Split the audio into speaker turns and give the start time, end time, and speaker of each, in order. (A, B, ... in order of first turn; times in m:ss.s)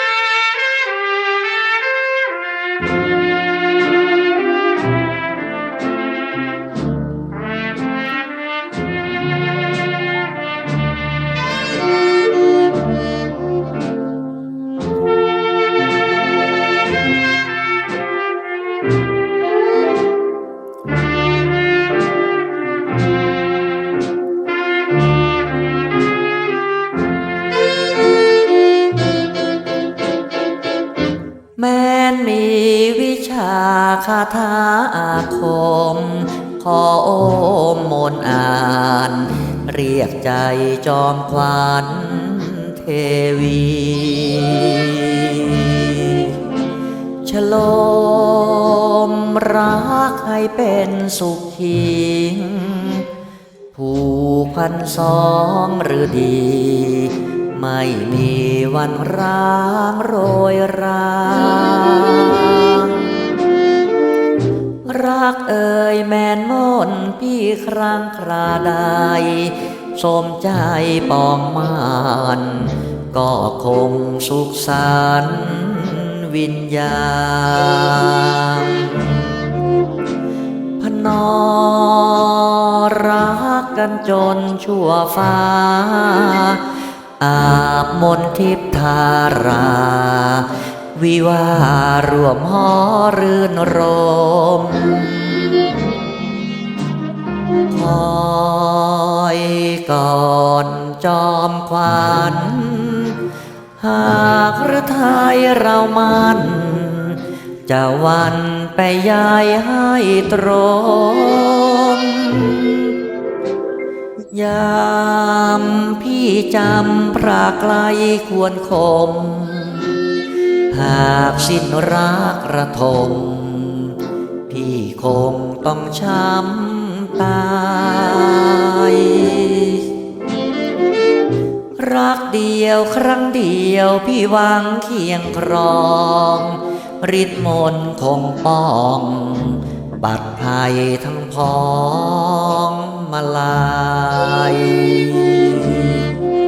0:31.6-0:46.4 A
0:47.2-0:53.1 A
0:53.7-1:03.2 A
1:04.8-1:19.1 A
1:20.8-1:36.0 A
1:37.7-1:53.0 A
1:54.3-2:00.0 A
2:00.7-2:09.9 A
2:11.8-2:26.1 A